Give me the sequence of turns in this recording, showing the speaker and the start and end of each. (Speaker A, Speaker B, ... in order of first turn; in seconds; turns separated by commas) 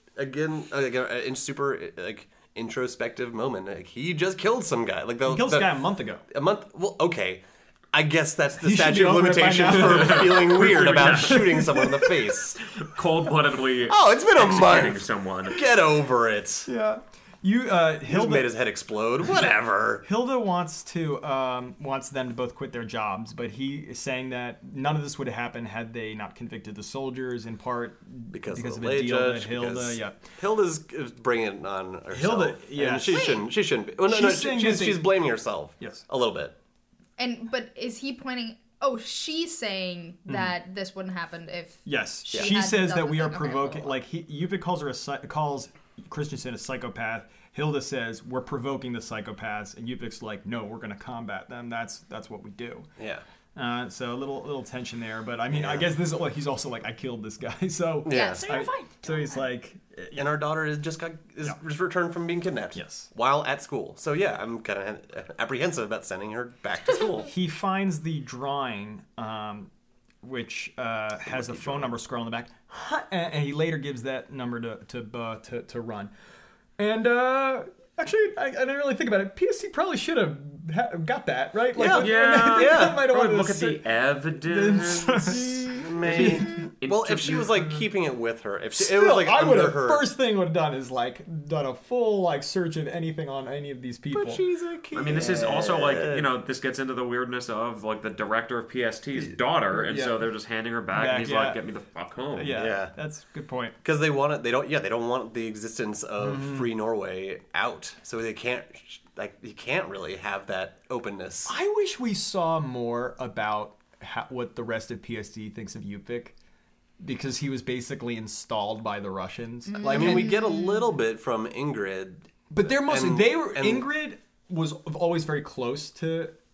Speaker A: 0.1-5.8, Speaker B: 5.2-6.2, Speaker A: 6.3-12.6, Speaker B: 8.6-12.2, Speaker C: 9.9-11.6, Speaker C: 12.8-15.6, Speaker A: 13.9-16.7, Speaker B: 16.7-18.5, Speaker A: 18.1-20.0, Speaker B: 20.0-30.3, Speaker A: 28.3-36.5, Speaker B: 32.1-33.3, Speaker D: 33.1-33.4, Speaker B: 34.0-35.1, Speaker B: 35.8-36.0, Speaker D: 37.2-43.9, Speaker B: 40.3-40.5, Speaker B: 41.8-52.9, Speaker A: 42.3-42.5, Speaker A: 53.0-53.2, Speaker B: 53.5-60.2, Speaker A: 55.5-55.9, Speaker A: 58.0-58.7, Speaker D: 58.1-59.5, Speaker A: 60.1-67.3, Speaker B: 62.7-63.1, Speaker B: 67.3-69.7, Speaker B: 70.2-76.1, Speaker A: 71.2-71.9, Speaker B: 76.8-83.8, Speaker A: 81.7-83.1, Speaker C: 81.9-87.6, Speaker B: 84.4-86.7, Speaker A: 85.2-90.1, Speaker B: 88.8-94.4, Speaker A: 94.1-96.3, Speaker C: 94.9-102.6, Speaker B: 99.2-100.2, Speaker B: 100.9-101.6, Speaker B: 102.3-103.7, Speaker A: 102.5-102.9, Speaker A: 103.8-111.5, Speaker B: 106.2-106.7, Speaker B: 111.5-116.3, Speaker B: 117.0-120.3, Speaker D: 119.7-120.9, Speaker A: 119.8-123.9, Speaker B: 122.5-126.3